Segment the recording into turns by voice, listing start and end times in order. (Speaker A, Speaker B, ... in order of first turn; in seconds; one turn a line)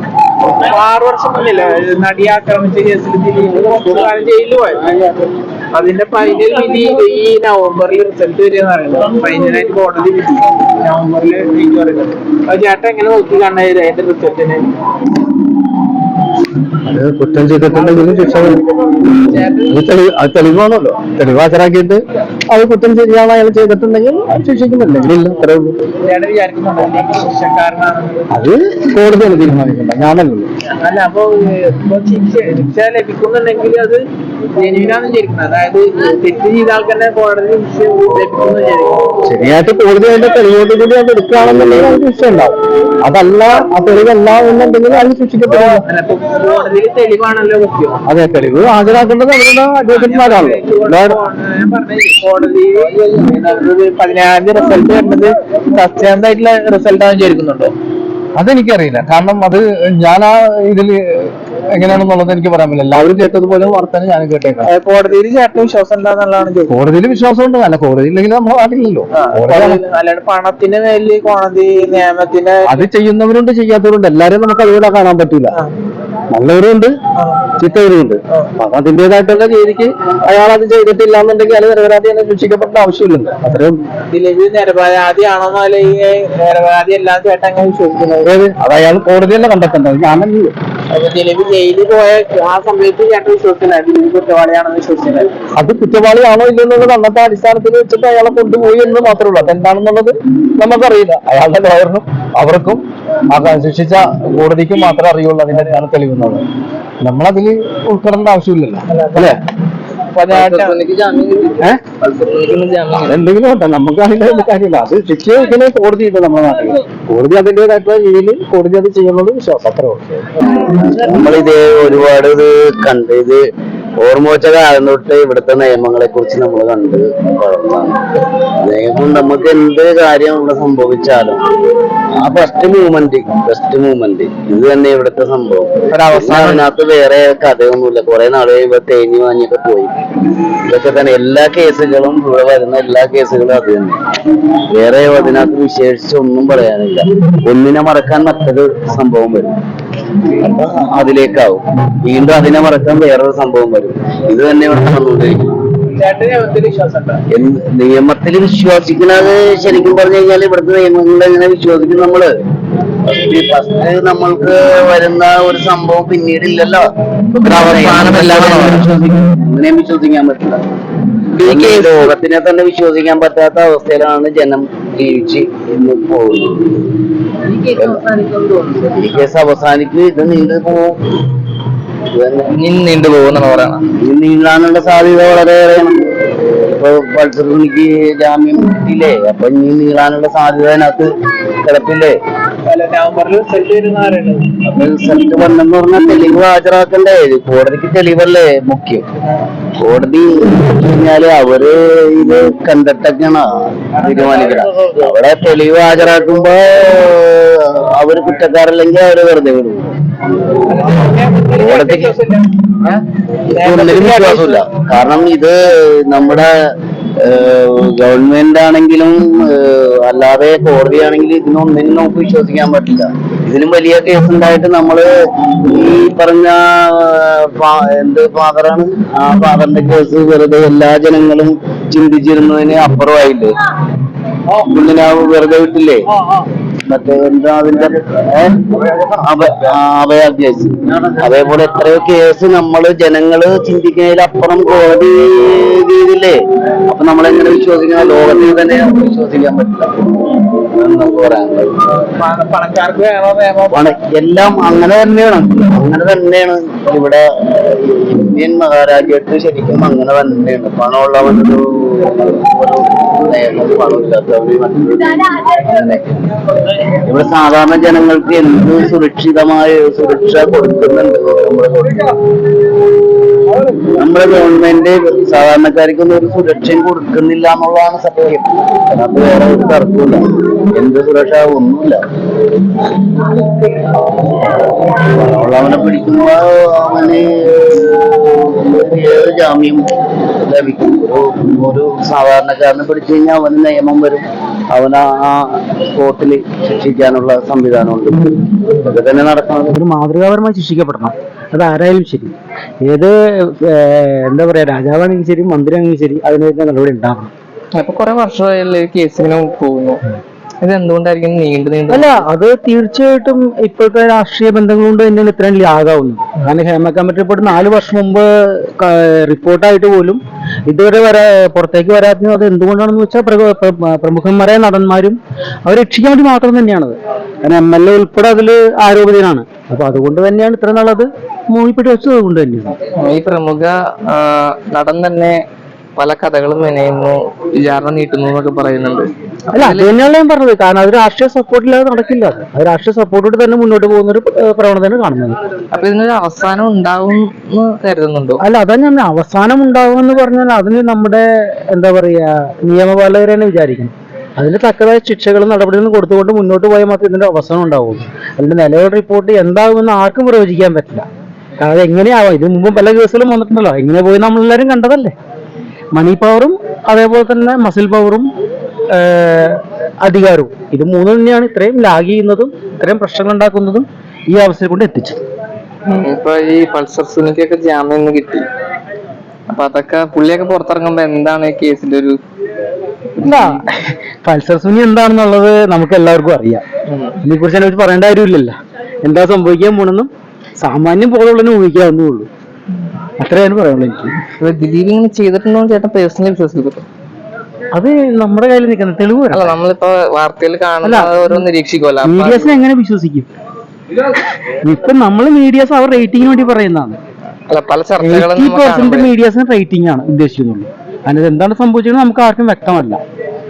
Speaker A: 0.5-4.9
Speaker A: 5.7-14.7
Speaker B: 16.9-18.6
Speaker A: 17.7-19.9
Speaker B: 19.7-25.8
Speaker A: 26.0-28.3
Speaker B: 28.3-30.5
Speaker A: 30.6-34.0
Speaker A: 34.6-39.1
Speaker B: 39.3-45.8
Speaker A: 45.5-48.0
Speaker B: 48.1-51.2
Speaker A: 49.9-57.7
Speaker B: 58.4-64.7
Speaker A: 64.6-66.7
Speaker B: 66.7-69.8
Speaker A: 69.1-72.9
Speaker B: 72.7-75.6
Speaker B: 76.3-77.0
Speaker A: 77.2-77.5
Speaker B: 77.6-83.8
Speaker A: 84.1-88.3
Speaker B: 88.2-90.5
Speaker A: 90.9-95.3
Speaker B: 95.6-106.4
Speaker B: 107.0-109.4
Speaker A: 108.9-109.3
Speaker A: 110.2-110.7
Speaker C: 110.3-113.2
Speaker B: 113.1-120.3
Speaker D: 120.5-123.4
Speaker D: 124.0-128.0
Speaker D: 128.6-131.4
Speaker D: 132.2-139.9
Speaker B: 136.3-136.6
Speaker D: 140.7-144.0
Speaker D: 144.7-149.5
Speaker D: 150.4-155.6
Speaker A: 155.9-157.2
Speaker D: 157.3-162.3
Speaker D: 163.1-170.6
Speaker C: 167.4-168.9
Speaker C: 171.4-172.1
Speaker D: 171.4-177.0
Speaker C: 177.5-178.9
Speaker D: 177.7-178.1
Speaker D: 178.9-180.9
Speaker D: 182.1-182.5
Speaker C: 182.5-183.8
Speaker D: 184.0-185.9
Speaker D: 186.7-191.1
Speaker D: 191.6-192.2
Speaker A: 192.7-194.5
Speaker D: 194.7-199.0
Speaker D: 199.8-209.9
Speaker A: 210.7-213.0
Speaker D: 211.6-212.1
Speaker A: 213.5-214.7
Speaker D: 213.5-225.1
Speaker D: 225.6-233.6
Speaker D: 234.5-236.1
Speaker D: 236.9-238.6
Speaker D: 239.1-249.9
Speaker D: 250.8-251.7
Speaker A: 252.2-253.9
Speaker D: 253.7-266.3
Speaker D: 267.1-272.1
Speaker D: 273.9-282.0
Speaker D: 284.9-289.8
Speaker D: 290.4-299.8
Speaker E: 299.7-307.3
Speaker C: 307.8-310.0
Speaker C: 310.6-312.2
Speaker E: 311.9-332.8
Speaker C: 333.0-335.4
Speaker C: 336.0-339.9
Speaker E: 339.5-345.4
Speaker C: 345.7-348.4
Speaker E: 348.4-361.1
Speaker E: 361.6-365.1
Speaker E: 365.9-368.3
Speaker E: 368.9-375.2
Speaker C: 375.9-378.4
Speaker C: 379.5-382.2
Speaker C: 383.2-383.6
Speaker E: 383.2-386.6
Speaker C: 386.9-387.2
Speaker E: 387.2-390.1
Speaker E: 390.6-392.3
Speaker E: 393.2-394.1
Speaker C: 394.4-396.9
Speaker E: 397.7-399.6
Speaker C: 399.3-402.6
Speaker E: 400.8-401.4
Speaker E: 402.0-403.3
Speaker E: 404.6-407.0
Speaker C: 407.5-409.1
Speaker E: 408.0-413.0